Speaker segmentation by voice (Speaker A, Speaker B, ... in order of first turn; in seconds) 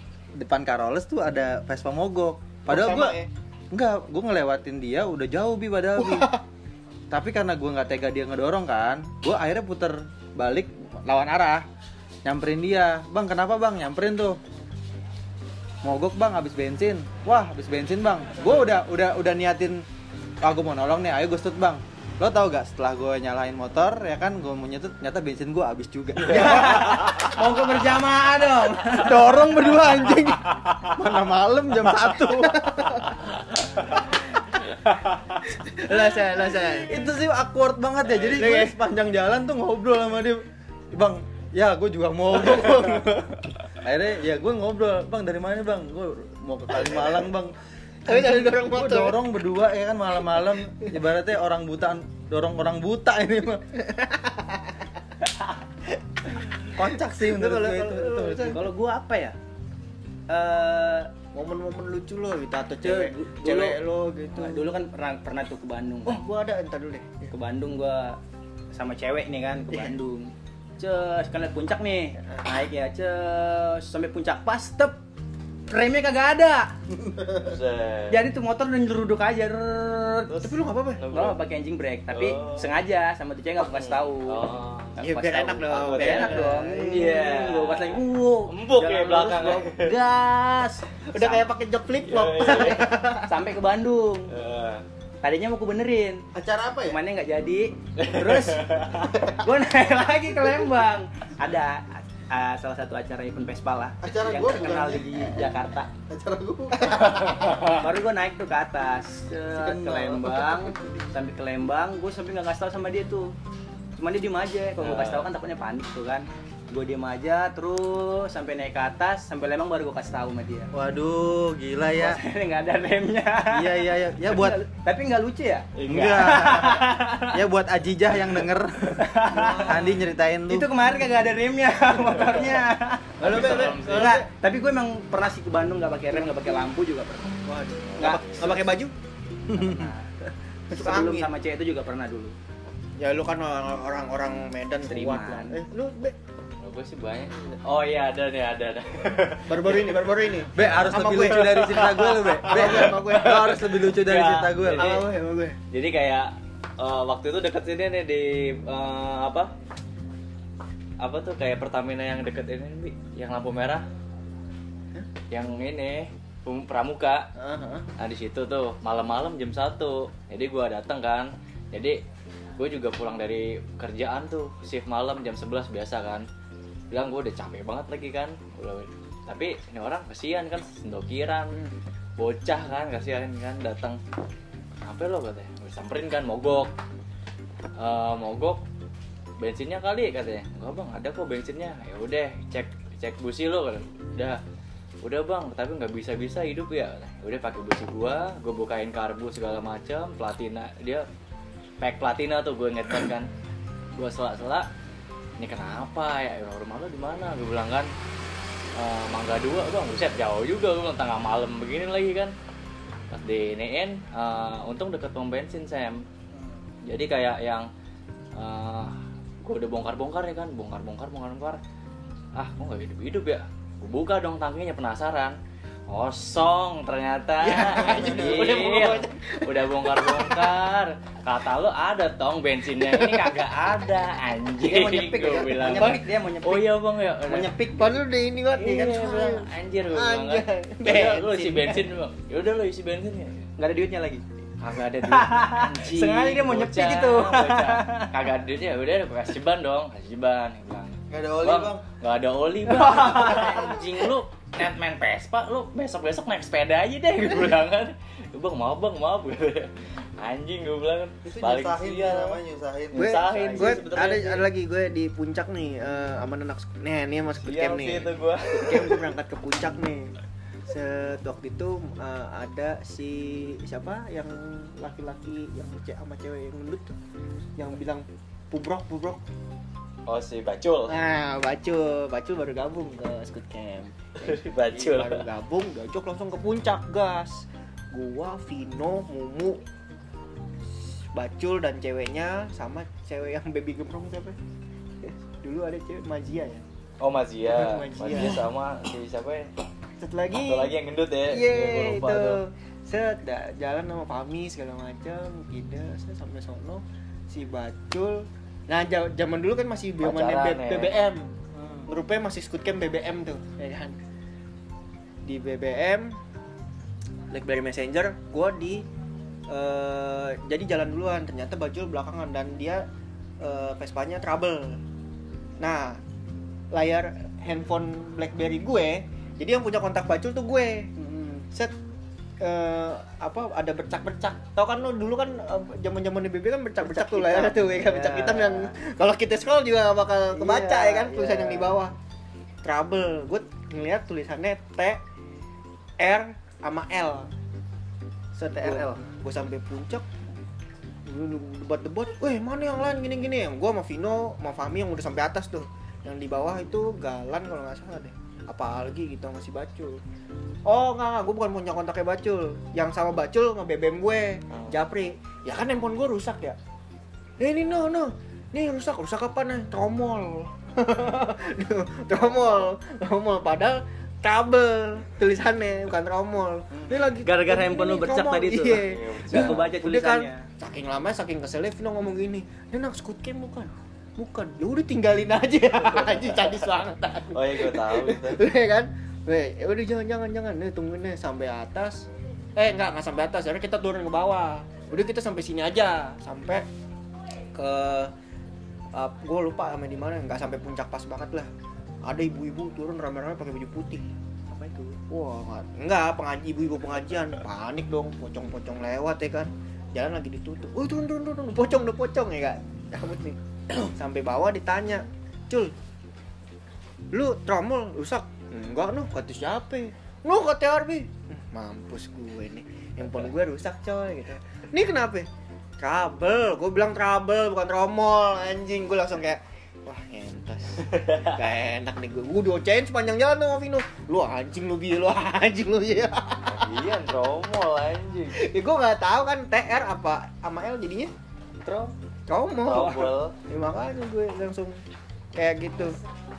Speaker A: 0.3-3.1, 3.7-6.3, 7.1-11.7, 12.2-14.4, 15.8-19.8, 20.4-27.9, 28.8-33.2, 36.6-53.6, 56.7-58.6, 96.3-97.0, 104.0-105.4, 106.1-107.8, 109.9-110.7, 120.7-122.2, 123.5-124.6, 125.9-130.7, 139.5-139.9, 150.5-155.0, 251.1-251.8, 261.4-263.2, 311.5-311.9
Speaker B: 2.7-3.3, 6.0-6.4, 26.3-27.7, 32.4-33.2, 35.5-37.1, 38.2-38.8, 48.0-49.2, 53.8-54.7, 56.4-58.6, 61.3-64.7, 66.0-67.3, 72.2-72.5, 80.4-81.0, 85.0-87.1, 91.1-93.3, 129.3-130.0, 133.2-134.3, 137.4-138.9, 140.7-141.3, 143.0-146.2, 149.4-153.7, 154.8-155.6, 167.4-167.9, 227.4-230.5, 233.0-233.3, 237.7-241.8, 262.9-270.1, 270.7-277.0, 277.6-279.2, 280.9-289.6, 290.9-294.4, 295.0-296.6, 297.4-298.4, 300.0-300.7, 301.2-311.4, 311.9-314.0, 315.2-316.2, 317.3-318.9, 319.5-322.9, 323.4-324.8, 325.6-326.0, 326.7-331.7, 332.4-341.9, 342.6-345.0, 346.0-347.3, 348.4-350.1, 351.1-360.0, 360.6-366.6, 367.4-396.6, 397.5-398.1, 398.9-401.5, 402.0-415.7, 417.1-425.3, 425.8-436.6, 438.3-441.1, 442.3-444.8, 445.3-446.0
Speaker C: 26.2-29.1, 58.5-59.3, 60.3-61.1, 62.8-63.8, 64.3-66.2, 67.3-68.2, 68.7-75.0, 75.7-76.7, 78.1-80.5, 81.1-84.4, 85.0-91.5, 93.2-94.3, 95.2-96.2, 96.9-98.6, 99.1-105.9, 106.8-113.3, 114.0-120.7, 122.0-127.4, 129.0-129.8, 130.5-137.4, 139.6-140.0, 140.7-142.3, 144.8-145.6, 228.1-228.7, 234.6-236.7, 237.3-238.0, 243.6-244.2, 245.0-248.1, 252.7-253.6, 263.4-264.4, 336.8-338.7, 340.3-341.7, 348.6-348.9, 377.2-380.5
Speaker D: 77.3-78.2, 80.3-81.4, 82.1-82.7, 83.6-85.0, 85.7-90.0, 92.0-92.9, 94.3-94.8, 98.0-99.3, 107.3-107.8, 109.6-110.2, 114.8-115.3, 125.8-126.3, 133.2-134.2, 137.8-138.6, 146.6-150.1, 152.6-152.9, 153.9-155.1, 155.7-159.5, 161.0-163.8, 165.3-167.2, 168.0-172.0, 172.6-176.2, 176.9-181.6, 182.2-184.0, 184.8-186.7, 187.8-188.6, 189.4-194.4, 195.0-201.1, 201.8-203.3, 204.0-204.7, 205.4-207.9, 208.8-212.3, 213.1-216.0, 216.8-217.7, 218.3-221.6, 222.3-225.4, 225.9-237.6, 238.5-243.5, 244.6-262.4, 262.9-264.4, 267.4-269.0, 280.1-281.0, 284.2-285.2, 297.0-299.5, 300.4-302.4, 310.0-310.9, 378.7-379.7, 387.3-388.4, 436.4-438.4, 441.6-441.9, 442.6-443.4